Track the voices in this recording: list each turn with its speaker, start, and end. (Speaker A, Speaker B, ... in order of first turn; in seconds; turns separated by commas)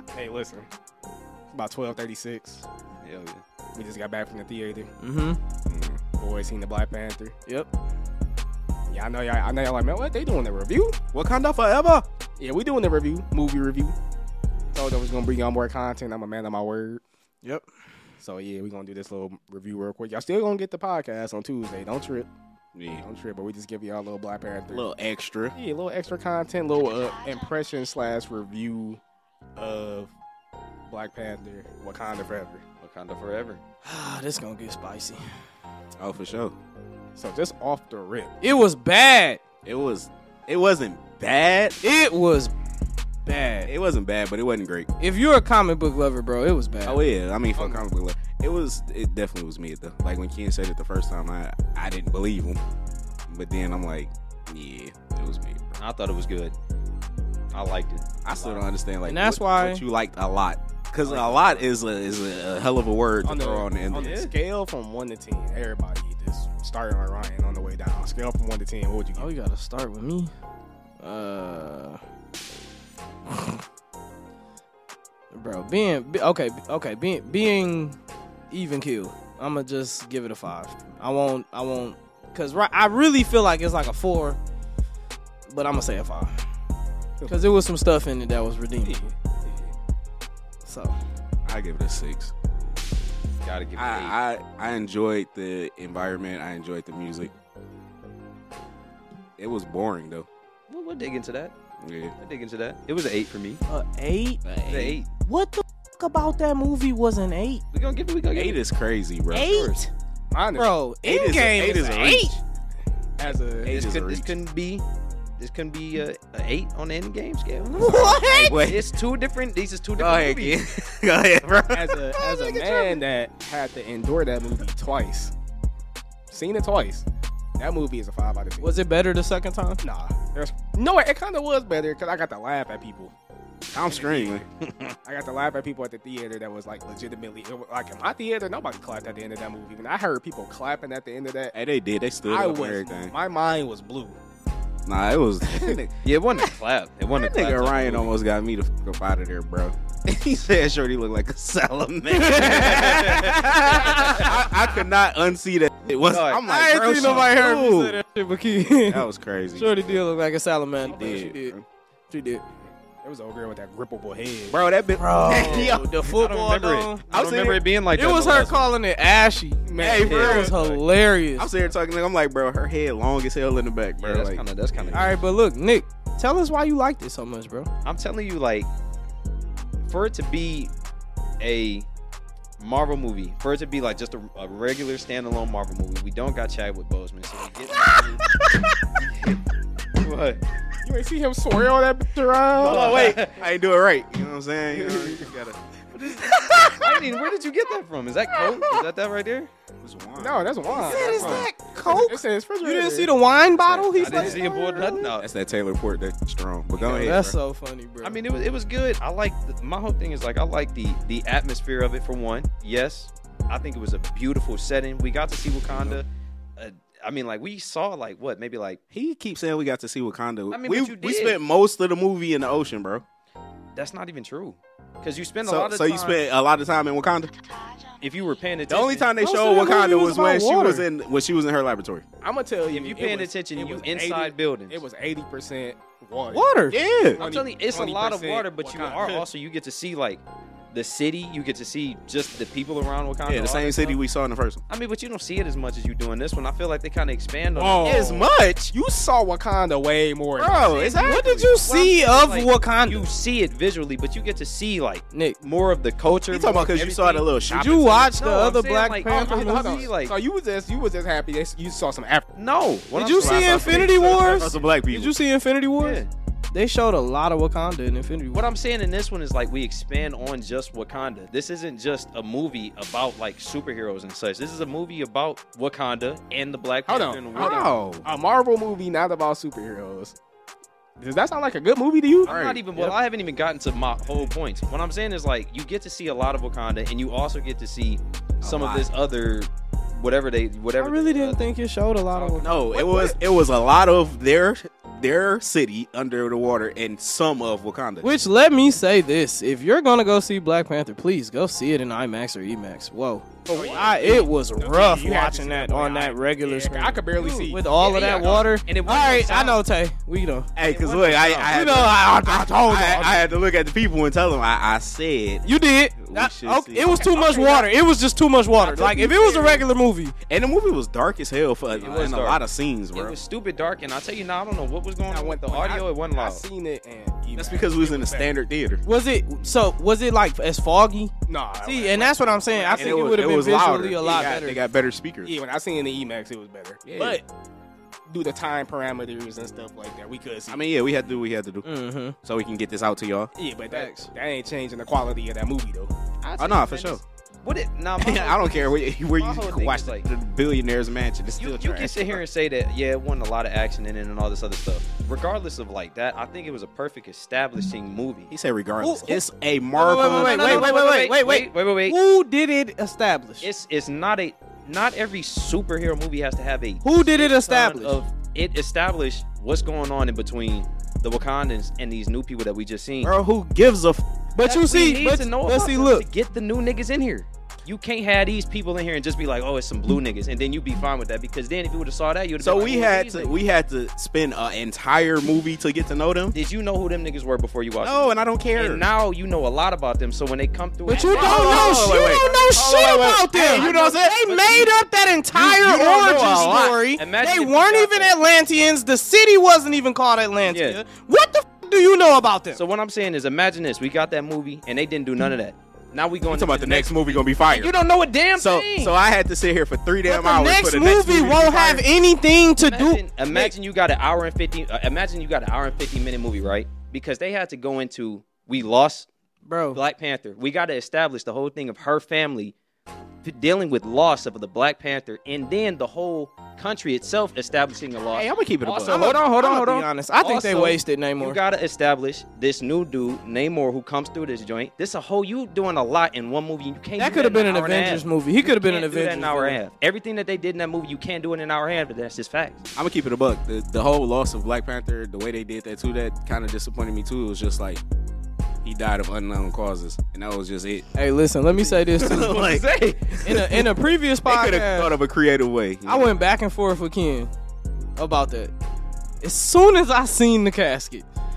Speaker A: 0.1-0.7, Speaker A: 1.5-2.6, Speaker B: 3.0-3.4, Speaker A: 3.8-4.9, Speaker C: 5.0-5.4, Speaker D: 5.7-6.0, Speaker A: 6.1-7.4, Speaker A: 8.9-11.0, Speaker D: 11.1-12.1, Speaker A: 12.4-14.0, Speaker A: 14.7-17.0, Speaker A: 18.2-22.3, Speaker D: 22.8-23.1, Speaker A: 23.0-24.9, Speaker D: 24.7-25.6, Speaker A: 25.6-29.0, Speaker A: 29.6-30.1, Speaker A: 30.9-32.6, Speaker B: 32.8-33.6, Speaker C: 33.9-35.2, Speaker D: 36.0-36.5, Speaker A: 37.1-38.4, Speaker C: 38.4-39.4, Speaker D: 39.6-41.8, Speaker C: 41.8-42.5, Speaker C: 43.3-43.7, Speaker D: 43.6-44.9, Speaker C: 45.0-47.0, Speaker D: 46.9-52.6, Speaker A: 47.6-47.8, Speaker D: 53.3-55.8, Speaker B: 55.8-56.5, Speaker B: 57.5-58.6, Speaker D: 58.2-64.2, Speaker C: 59.0-59.8, Speaker B: 61.0-61.6, Speaker A: 63.2-69.3, Speaker B: 63.9-64.3, Speaker C: 69.2-70.3, Speaker C: 71.0-72.0, Speaker C: 73.3-73.6, Speaker C: 75.3-78.0, Speaker C: 78.5-84.4, Speaker C: 85.5-86.4, Speaker A: 87.2-87.7, Speaker C: 87.3-89.1, Speaker A: 88.8-89.7, Speaker C: 90.7-91.0, Speaker D: 91.5-92.3, Speaker B: 93.4-94.2, Speaker D: 93.8-97.3, Speaker D: 99.4-100.3, Speaker B: 100.7-101.5, Speaker D: 101.8-102.1, Speaker B: 102.2-103.6, Speaker C: 103.7-104.4, Speaker D: 104.4-105.0, Speaker B: 104.6-105.1, Speaker C: 105.2-107.6, Speaker B: 107.7-108.6, Speaker D: 108.3-109.5, Speaker B: 109.3-109.9, Speaker C: 109.3-109.9, Speaker A: 110.3-110.8, Speaker C: 110.6-112.4, Speaker D: 111.0-112.3, Speaker A: 113.2-113.8, Speaker D: 113.6-114.3, Speaker B: 113.7-114.8, Speaker B: 115.4-120.6, Speaker C: 117.7-118.7, Speaker D: 117.9-118.9, Speaker D: 120.0-122.7, Speaker A: 121.7-125.3, Speaker A: 126.3-127.1, Speaker A: 127.6-128.7, Speaker C: 128.6-129.8, Speaker A: 129.8-133.1, Speaker D: 133.7-134.4, Speaker B: 133.9-134.7, Speaker A: 135.1-141.5, Speaker D: 141.5-143.1, Speaker A: 142.3-144.2, Speaker D: 144.9-146.0, Speaker B: 146.0-148.1, Speaker D: 147.1-158.0, Speaker C: 152.1-154.4, Speaker B: 152.1-154.4, Speaker B: 156.1-156.4, Speaker C: 156.4-161.6, Speaker B: 157.0-157.2, Speaker D: 158.8-160.0, Speaker A: 160.8-161.3, Speaker D: 160.9-161.7, Speaker C: 162.1-162.4, Speaker A: 163.0-164.6, Speaker D: 164.5-165.9, Speaker C: 165.0-167.0, Speaker B: 165.3-168.7, Speaker D: 167.1-167.6, Speaker C: 167.9-171.5, Speaker A: 169.7-170.6, Speaker D: 169.8-170.6, Speaker B: 170.0-170.7, Speaker D: 171.4-175.1, Speaker B: 174.0-175.2, Speaker C: 174.9-177.7, Speaker B: 177.8-178.7, Speaker B: 179.9-180.7, Speaker B: 181.4-181.9, Speaker B: 182.6-188.3, Speaker B: 188.9-189.4, Speaker B: 190.0-190.4, Speaker A: 190.8-193.1, Speaker B: 192.6-193.4, Speaker D: 192.6-196.9, Speaker A: 194.7-195.3, Speaker B: 196.8-199.5, Speaker D: 199.8-201.5, Speaker A: 200.2-203.1, Speaker C: 200.8-205.1, Speaker B: 200.9-201.5, Speaker D: 203.7-204.4, Speaker B: 203.9-205.2, Speaker D: 205.2-207.4, Speaker C: 206.8-208.2, Speaker B: 208.0-216.1, Speaker D: 215.7-216.0, Speaker B: 216.6-218.8, Speaker D: 218.9-223.0, Speaker B: 220.5-221.4, Speaker B: 223.8-226.2, Speaker D: 225.4-227.3, Speaker B: 228.0-229.1, Speaker D: 228.7-232.1, Speaker C: 229.2-230.9, Speaker A: 232.2-236.5, Speaker B: 232.7-234.8, Speaker C: 236.3-236.8, Speaker D: 236.7-237.2, Speaker B: 237.2-244.0, Speaker A: 237.2-239.2, Speaker D: 243.3-244.6, Speaker B: 244.7-248.1, Speaker A: 247.6-250.9, Speaker D: 247.8-248.7, Speaker D: 250.4-251.5, Speaker B: 250.6-257.3, Speaker C: 251.0-253.1, Speaker C: 255.1-255.4, Speaker D: 256.3-258.1, Speaker C: 257.5-259.9, Speaker B: 258.1-260.2, Speaker A: 259.1-262.3, Speaker B: 262.4-264.6, Speaker C: 263.0-268.4, Speaker D: 263.1-265.2, Speaker B: 265.8-266.1, Speaker B: 268.3-277.7, Speaker A: 276.9-280.2, Speaker D: 277.4-278.1, Speaker A: 281.0-282.3, Speaker B: 282.2-291.5, Speaker D: 282.2-283.0, Speaker D: 288.4-288.9, Speaker C: 290.8-292.6, Speaker B: 292.1-292.5, Speaker D: 292.4-298.1, Speaker C: 298.0-310.5, Speaker A: 303.5-307.7, Speaker B: 303.5-304.2, Speaker B: 307.8-309.6, Speaker D: 310.6-317.0, Speaker B: 310.6-311.6, Speaker C: 311.5-313.3, Speaker C: 315.4-320.1, Speaker B: 316.9-317.7, Speaker D: 318.6-319.6, Speaker D: 320.3-323.2, Speaker B: 321.7-322.4, Speaker B: 322.9-326.4, Speaker A: 325.1-328.3, Speaker D: 327.3-328.8, Speaker C: 328.9-331.1, Speaker A: 331.3-333.2, Speaker C: 331.6-334.6, Speaker D: 332.7-335.4, Speaker A: 335.2-337.3, Speaker D: 336.8-337.2, Speaker A: 338.1-340.6, Speaker D: 340.5-341.7, Speaker C: 341.6-342.2, Speaker D: 342.2-343.3, Speaker A: 343.4-345.9, Speaker C: 343.7-344.1, Speaker B: 346.2-350.1, Speaker D: 346.4-347.0, Speaker D: 348.0-352.2, Speaker B: 351.4-358.3, Speaker D: 358.3-360.7, Speaker C: 358.8-359.2, Speaker C: 359.8-363.5, Speaker B: 359.9-362.0, Speaker B: 363.4-373.1, Speaker C: 366.8-368.0, Speaker D: 373.0-374.1, Speaker C: 374.4-376.1, Speaker B: 374.4-383.4, Speaker D: 382.4-386.4, Speaker B: 386.3-394.7, Speaker D: 387.8-388.9, Speaker C: 390.9-402.6, Speaker D: 391.1-394.6, Speaker D: 395.3-396.8, Speaker B: 396.9-398.1, Speaker B: 400.5-400.8, Speaker B: 402.5-408.9, Speaker D: 406.3-407.7, Speaker D: 408.4-411.9, Speaker C: 410.1-413.5, Speaker B: 412.6-419.1, Speaker C: 419.5-419.8, Speaker B: 419.7-422.6, Speaker B: 423.2-442.6, Speaker D: 428.1-429.5, Speaker C: 428.9-431.4, Speaker C: 437.0-439.6, Speaker D: 442.8-447.8, Speaker D: 448.6-450.9, Speaker C: 450.9-452.6, Speaker D: 451.6-452.6, Speaker B: 452.0-453.3, Speaker C: 453.2-454.9, Speaker D: 454.2-456.1, Speaker C: 455.9-457.3, Speaker C: 458.0-458.5, Speaker C: 459.2-461.1